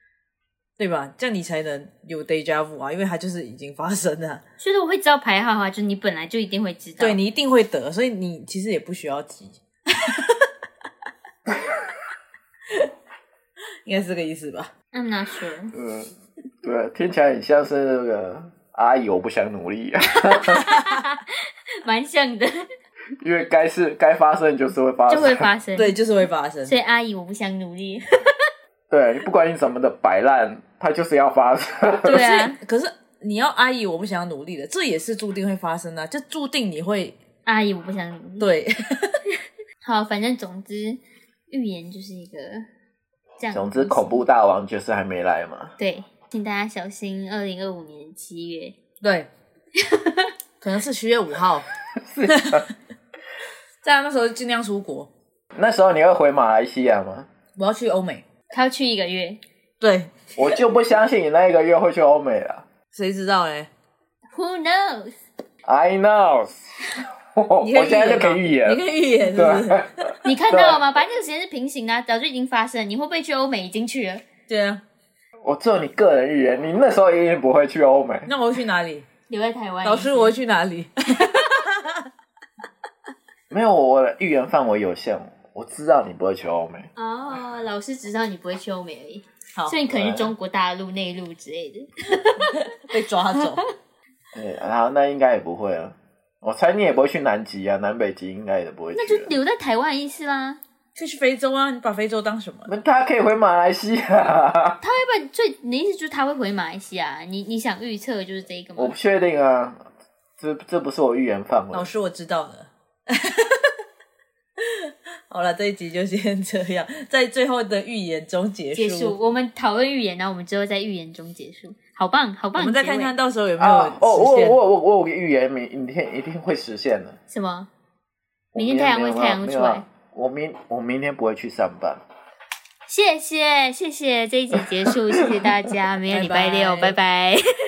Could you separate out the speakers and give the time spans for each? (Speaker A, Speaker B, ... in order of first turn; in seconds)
Speaker A: 0.8-4.4, 7.0-10.5, 13.8-14.7, 25.8-26.7, 32.4-37.1, 38.4-39.2, 49.0-49.3, 50.6-51.7, 52.3-52.7, 53.8-55.1, 57.5-58.2, 59.8-60.5, 62.9-63.7, 67.6-70.1, 74.5-74.8, 78.2-79.1, 79.8-82.1, 92.5-93.6, 100.9-102.7, 111.7-113.8, 114.6-119.2, 122.5-124.6, 136.1-137.0
Speaker B: 4.6-7.2, 14.9-15.7, 20.2-22.7, 25.1-25.9, 26.6-28.2, 32.0-32.6, 37.5-38.5, 39.8-42.6, 43.4-44.2, 45.8-48.8, 49.8-50.3, 58.5-59.4, 64.3-65.2, 70.2-74.2, 79.3-80.4, 87.0-92.6, 98.9-100.6, 104.8-108.9, 118.7-123.1, 127.3-127.7, 128.6-129.9, 132.9-137.4
Speaker C: 15.7-16.1, 16.6-20.7, 23.2-25.5, 28.9-32.4, 43.5-45.8, 52.0-52.7, 55.5-57.3, 60.4-62.7, 65.6-70.8, 75.4-78.3, 83.5-86.9, 89.9-90.3, 94.3-99.3, 102.7-104.8, 108.8-109.8, 110.4-111.9, 123.6-127.2, 128.5-132.0